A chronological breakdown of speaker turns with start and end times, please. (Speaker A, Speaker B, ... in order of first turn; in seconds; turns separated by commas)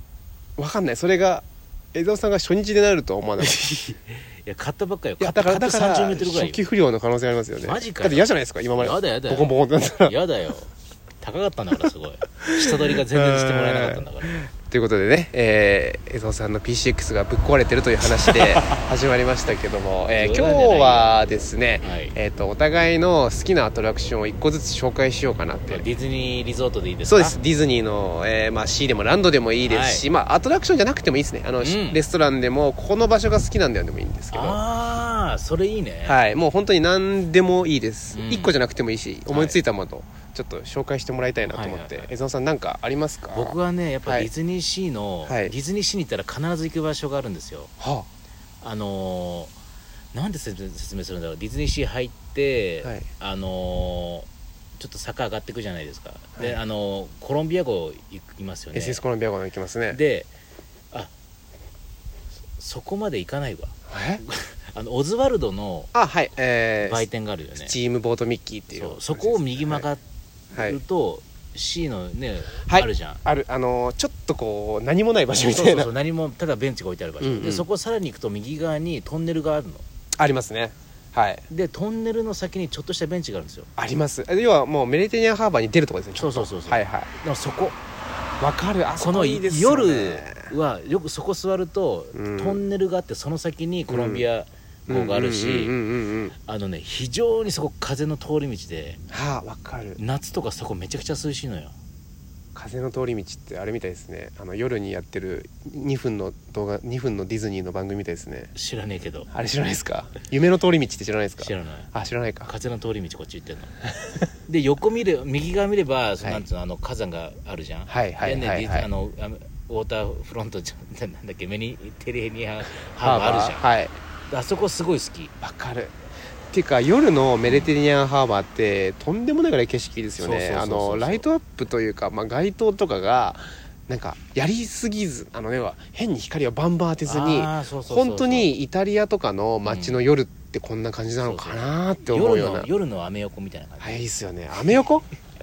Speaker A: 0.6-3.7, Speaker B: 3.4-6.6, Speaker A: 5.2-10.2, Speaker B: 7.6-8.3, Speaker B: 8.8-14.4, Speaker A: 12.4-25.9, Speaker B: 20.2-21.2, Speaker B: 21.8-22.2, Speaker B: 25.7-27.4, Speaker A: 27.1-34.6, Speaker B: 29.7-30.1, Speaker B: 31.6-32.0, Speaker B: 34.3-36.2, Speaker A: 36.0-44.3, Speaker B: 38.1-38.5, Speaker B: 39.3-39.6, Speaker B: 41.4-42.1, Speaker B: 43.3-47.7, Speaker A: 45.2-45.5, Speaker A: 47.8-48.1, Speaker B: 48.6-49.5, Speaker B: 50.1-59.0, Speaker A: 52.8-53.1, Speaker A: 58.7-60.0, Speaker B: 59.9-60.3, Speaker B: 62.6-65.9, Speaker A: 63.9-64.2, Speaker A: 65.9-69.9, Speaker B: 66.8-67.8, Speaker B: 68.7-70.0, Speaker B: 70.5-73.2, Speaker A: 70.5-70.8, Speaker A: 72.7-75.9, Speaker B: 75.4-79.8, Speaker A: 77.2-77.7, Speaker A: 80.2-81.5, Speaker B: 81.5-83.7, Speaker A: 83.8-87.1, Speaker B: 86.2-87.8, Speaker A: 88.4-90.5, Speaker B: 89.0-95.8, Speaker A: 92.1-92.6, Speaker A: 93.9-94.3, Speaker A: 94.9-96.3, Speaker B: 96.5-99.0, Speaker A: 99.1-100.0, Speaker B: 100.0-101.8, Speaker A: 102.5-108.5, Speaker B: 108.5-109.3, Speaker A: 109.3-112.5, Speaker B: 111.4-111.9, Speaker B: 112.5-113.7, Speaker B: 114.5-123.7, Speaker A: 117.9-118.9, Speaker A: 123.0-123.9, Speaker B: 124.3-125.3, Speaker A: 125.4-125.9, Speaker A: 126.5-142.7, Speaker B: 127.5-127.7, Speaker B: 130.2-131.3, Speaker B: 137.1-138.5, Speaker B: 139.7-140.0, Speaker B: 141.2-144.1, Speaker A: 143.8-145.1